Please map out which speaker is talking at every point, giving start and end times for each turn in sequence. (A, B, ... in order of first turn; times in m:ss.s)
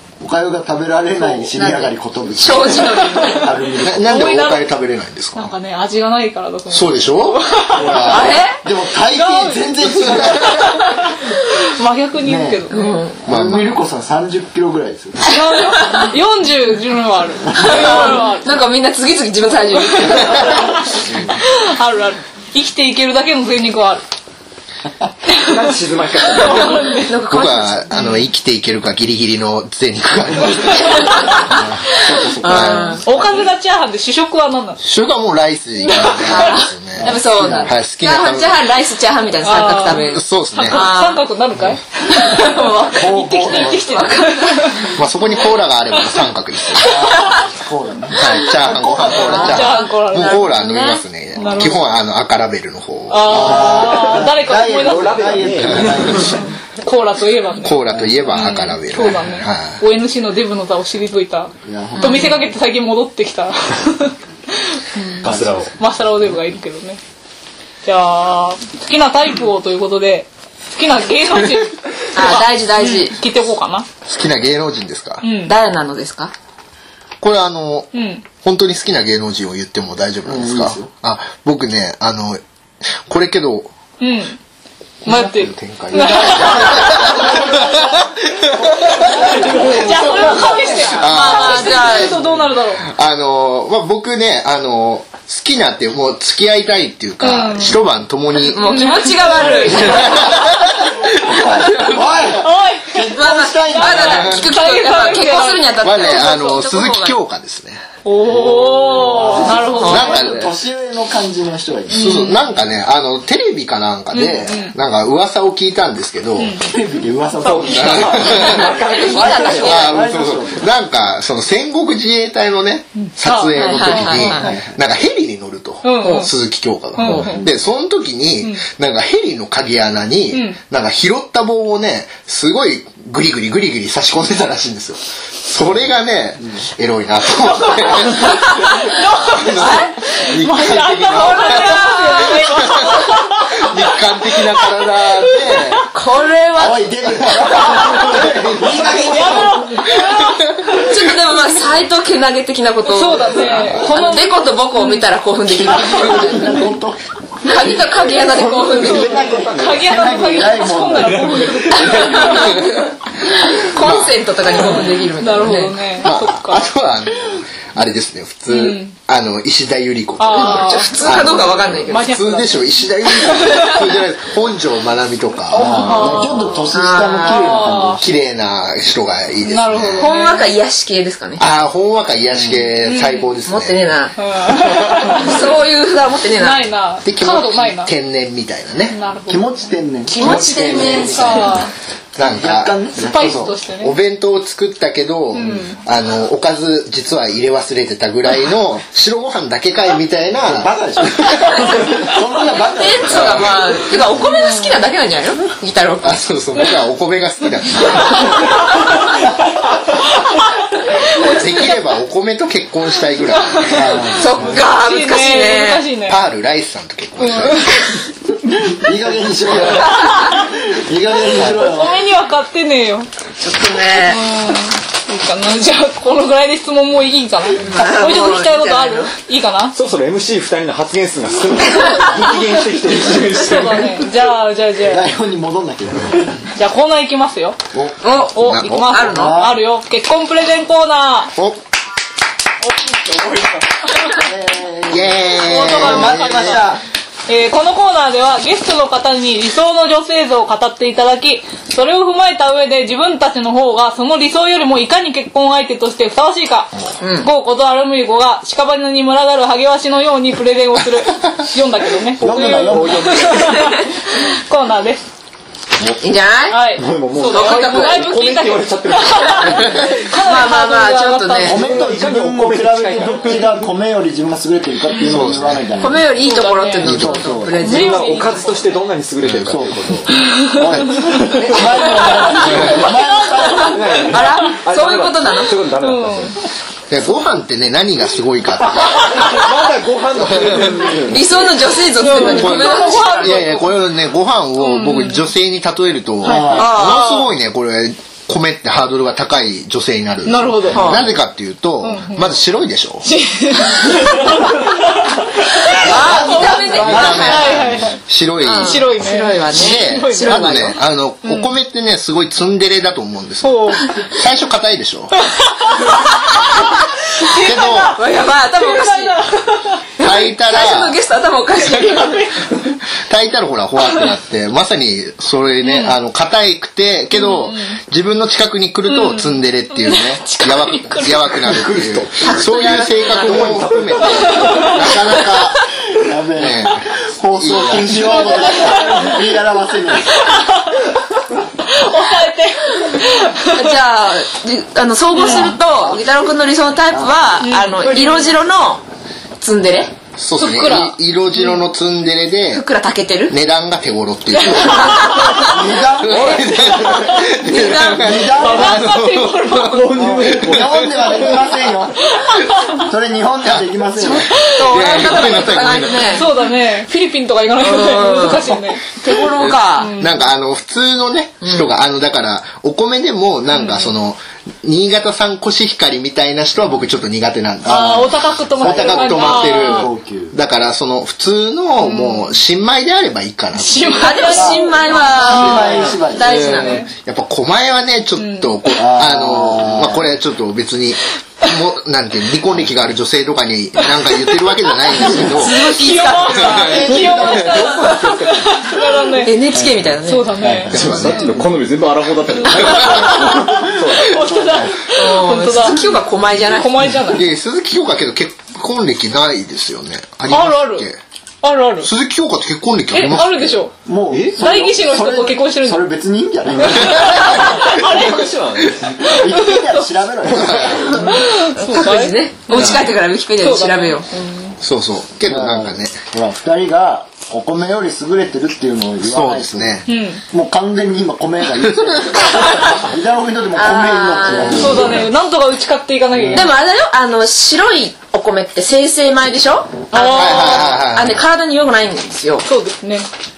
0:00.2-0:04.3 A
0:01.5-0:03.6 B
0:02.9-0:03.5 C
0:03.8-0:05.5 D
0:04.0-0:04.6 C
0:05.4-0:08.2 C
0:06.7-0:08.4 D
0:07.8-0:10.7 A
0:08.1-0:08.6 B
0:09.1-0:13.0 C
0:12.2-0:12.6 A
0:12.7-0:13.2 B
0:13.2-0:15.3 A
0:13.2-0:13.8 D
0:15.3-0:18.5 C
0:15.8-0:16.1 B
0:17.5-0:17.8 A
0:17.5-0:20.7 B
0:19.8-0:24.0 C
0:25.3-0:25.7 C
0:25.4-0:27.0 E
0:26.3-0:27.1 C
0:26.4-0:28.2 B
0:27.3-0:31.8 D
0:30.6-0:31.4 C
0:31.0-0:31.6 B
0:31.9-0:33.4 A
0:32.4-0:33.0 B
0:32.4-0:33.0 D
0:32.6-0:34.8 C
0:34.8-0:38.6 D
0:35.8-0:36.6 C
0:35.9-0:41.2 B
0:37.0-0:37.7 A
0:39.4-0:45.0 C
0:39.9-0:40.8 D
0:42.1-0:44.9 B
0:42.9-0:44.0 A
0:44.9-0:47.1 D
0:46.8-0:49.5 A
0:46.9-0:47.4 B
0:48.1-0:53.9 D
0:48.7-0:51.0 B
0:49.1-0:50.5 C
0:51.4-0:51.8 C
0:53.1-1:04.1 C
0:53.2-0:56.4 A
0:54.8-0:56.2 E
0:57.6-0:59.8 D
0:57.9-0:58.2 A
1:01.6-1:02.4 A
1:02.0-1:02.4 B
1:04.7-1:07.0 C
1:05.2-1:05.7 E
1:05.2-1:05.6 A
1:07.8-1:13.9 C
1:12.1-1:13.2 B
1:14.0-1:15.2 D
1:15.2-1:15.5 C
1:15.4-1:16.3 B
1:17.2-1:22.4 D
1:17.9-1:18.2 C
1:20.2-1:20.9 A
1:23.0-1:23.7 D
1:24.0-1:24.4 C
1:25.0-1:27.3 C
1:25.0-1:30.3 D
1:25.9-1:31.0 A
1:29.2-1:32.8 C
1:30.8-1:32.2 B
1:31.0-1:32.2 D
1:32.8-1:38.8 D
1:37.2-1:37.8 C
1:38.4-1:40.5 B
1:38.5-1:40.4 C
1:39.7-1:42.0 D
1:41.1-1:44.4 A
1:42.3-1:45.7 C
1:43.1-1:47.2 B
1:44.0-1:44.4 D
1:45.8-1:47.8 D
1:48.0-1:50.3 C
1:48.2-1:52.2 A
1:49.3-1:50.5 D
1:49.7-1:50.5 B
1:51.9-1:56.6 D
1:51.9-1:52.5 C
1:54.1-1:54.7 C
1:56.4-1:56.7 C
1:56.6-2:00.7 A
1:57.4-1:59.8 E
1:57.6-1:58.7 D
1:58.3-1:59.9 B
1:59.6-2:25.9 D
2:03.0-2:04.4 C
2:03.5-2:04.5 B
2:04.2-2:04.8 A
2:05.8-2:06.3 C
2:07.0-2:07.4 C
2:07.2-2:07.5 A
2:10.3-2:10.6 C
2:17.5-2:25.8 C
2:18.2-2:18.7 B
2:19.6-2:19.9 B
2:21.1-2:22.9 B
2:25.9-2:26.9 B
2:26.5-2:29.8 A
2:27.6-2:28.1 C
2:28.7-2:30.9 C
2:29.9-2:31.0 D
2:30.7-2:36.6 B
2:32.8-2:35.1 C
2:35.5-2:41.3 A
2:37.4-2:39.3 B
2:38.7-2:42.7 C
2:39.3-2:39.8 E
2:41.0-2:42.6 E
2:42.1-2:45.8 B
2:43.7-2:44.8 D
2:44.6-2:46.7 C
2:46.0-2:56.1 D
2:48.5-2:49.0 C
2:50.2-2:51.3 C
2:50.3-2:52.1 B
2:51.9-2:53.9 C
2:55.5-2:58.1 A
2:55.6-2:56.7 C
2:56.0-2:57.6 B
2:57.2-2:58.0 C
2:58.0-3:00.1 D
2:59.4-3:00.5 C
3:00.0-3:01.4 B
3:01.4-3:03.8 D
3:02.8-3:03.3 C
3:03.4-3:06.6 B
3:04.2-3:05.6 C
3:06.4-3:07.9 C
3:07.0-3:09.0 D
3:08.9-3:11.7 C
3:09.3-3:11.6 A
3:10.1-3:11.6 B
3:10.2-3:11.1 D
3:12.2-3:21.8 D
3:12.2-3:13.6 A
3:13.0-3:13.9 C
3:15.3-3:15.8 C
3:20.4-3:23.5 A
3:22.6-3:26.2 B
3:23.1-3:23.6 D
3:24.2-3:24.7 C
3:26.0-3:28.5 D
3:30.2-3:30.5 C
3:31.1-3:34.1 D
3:31.1-3:31.6 C
3:33.4-3:36.2 C
3:33.7-3:34.3 A
3:34.1-3:35.8 B
3:36.0-3:38.0 D
3:37.2-3:38.0 C
3:38.6-3:42.0 A
3:39.8-3:40.5 C
3:41.3-3:43.1 C
3:43.4-3:44.2 B
3:44.0-3:49.8 C
3:47.6-3:49.1 B
3:49.7-3:54.1 E
3:53.2-3:55.0 C
3:54.8-3:56.3 A
3:56.5-3:57.6 C
3:57.7-3:58.0 A
3:58.0-3:59.4 B
3:58.3-4:01.4 C
3:58.3-3:59.0 D
3:59.0-3:59.6 A
4:02.6-4:04.2 C
4:04.2-4:06.8 A
4:04.9-4:06.6 D
4:05.4-4:06.8 C
4:07.3-4:25.0 C
4:17.0-4:17.3 B
4:22.2-4:23.4 A
4:22.2-4:23.7 E
4:26.0-4:28.0 B
4:26.5-4:31.8 C
4:26.8-4:30.0 E
4:30.1-4:31.6 B
4:31.4-4:36.0 A
4:31.5-4:33.6 E
4:34.9-4:35.3 C
4:35.0-4:35.6 D
4:35.8-4:38.4 B
4:36.2-4:38.6 C
4:36.8-4:37.2 D
4:36.8-4:37.6 A
4:37.6-4:40.2 E
4:39.2-4:39.6 D
4:39.4-4:44.0 A
4:40.1-4:41.3 C
4:41.1-4:42.8 E
4:42.0-4:44.4 C
4:42.4-4:42.9 D
4:43.4-4:45.5 B
4:43.6-4:46.4 E
4:45.8-4:46.4 C
4:46.9-4:49.4 D
4:48.8-4:51.4 E
4:50.2-4:50.8 D
4:51.0-4:53.6 B
4:51.9-4:53.7 C
4:52.1-5:03.1 D
4:54.6-4:55.3 C
4:56.2-4:56.7 A
4:56.2-4:57.0 C
4:56.5-4:57.3 B
5:00.2-5:01.0 C
5:00.7-5:01.1 B
5:01.8-5:02.3 C
5:03.0-5:08.0 C
5:05.7-5:07.7 B
5:05.8-5:07.8 A
5:06.3-5:08.9 D
5:08.4-5:10.8 B
5:08.6-5:11.5 C
5:09.5-5:15.3 D
5:13.4-5:13.9 C
5:15.2-5:19.8 C
5:17.3-5:18.0 D
5:17.9-5:19.2 B
5:20.0-5:22.3 B
5:20.0-5:21.0 D
5:21.6-5:22.7 C
5:23.0-5:35.6 D
5:25.6-5:26.0 C
5:27.1-5:27.8 C
5:28.9-5:31.4 C
5:31.4-5:34.6 E
5:34.0-5:34.9 C
5:35.0-5:35.2 B
5:35.9-5:40.3 A
5:36.4-5:38.7 D
5:37.8-5:39.2 C
5:40.1-5:41.0 C
5:41.6-5:43.8 C
5:43.5-5:48.8 B
5:45.1-5:45.6 C
5:47.4-5:48.3 C
5:49.4-5:49.9 B
5:50.2-5:52.6 D
5:50.4-5:51.6 C
5:52.5-5:53.3 B
5:53.3-6:01.2 D
5:54.4-5:55.5 C
5:54.6-5:55.5 B
5:55.4-5:56.9 A
5:57.0-5:57.3 C
5:57.4-5:58.2 B
5:58.0-5:58.8 A
5:58.3-5:58.8 E
5:58.3-6:00.2 C
5:59.7-6:01.4 E
5:59.9-6:02.0 A
6:02.1-6:02.9 C
6:02.8-6:04.3 A
6:03.4-6:06.2 D
6:04.0-6:06.3 B
6:04.3-6:05.5 C
6:06.1-6:08.8 C
6:07.6-6:09.9 B
6:09.3-6:24.4 D
6:09.8-6:10.3 C
6:11.4-6:11.7 B
6:13.5-6:13.9 C
6:17.6-6:19.9 C
6:18.6-6:20.3 A
6:21.8-6:22.4 C
6:23.5-6:26.9 C
6:24.0-6:26.8 B
6:24.3-6:26.6 A
6:26.3-6:35.7 D
6:28.2-6:28.8 C
6:28.8-6:30.1 A
6:34.9-6:39.4 C
6:35.0-6:36.8 B
6:36.3-6:36.8 D
6:36.6-6:38.0 A
6:36.8-6:38.6 E
6:39.1-6:40.4 B
6:40.0-6:41.4 C
6:40.4-6:41.2 A
6:40.7-6:44.2 E
6:40.7-6:41.3 D
6:42.3-6:45.9 C
6:44.2-6:44.7 A
6:44.9-6:47.0 B
6:46.5-6:47.2 C
6:47.1-6:51.0 D
6:50.3-6:50.9 C
6:51.4-6:51.9 C
6:51.8-6:53.5 D
6:52.9-6:53.7 C
6:53.8-6:57.4 A
6:54.1-6:54.4 E
6:54.4-6:55.9 C
6:56.6-6:58.3 C
6:57.2-6:59.2 E
6:59.0-6:59.8 C
6:59.1-7:01.0 A
7:00.3-7:00.9 D
7:00.3-7:00.6 E
7:00.9-7:04.6 C
7:00.9-7:04.1 B
7:02.5-7:02.8 D
7:04.6-7:06.0 D
7:05.3-7:15.0 A
7:09.0-7:09.9 D
7:09.9-7:10.2 C
7:11.6-7:12.7 D
7:13.5-7:14.8 B
7:14.5-7:16.5 C
7:16.1-7:16.5 A
7:16.3-7:22.4 B
7:19.9-7:20.8 C
7:20.1-7:21.2 D
7:22.4-7:23.1 C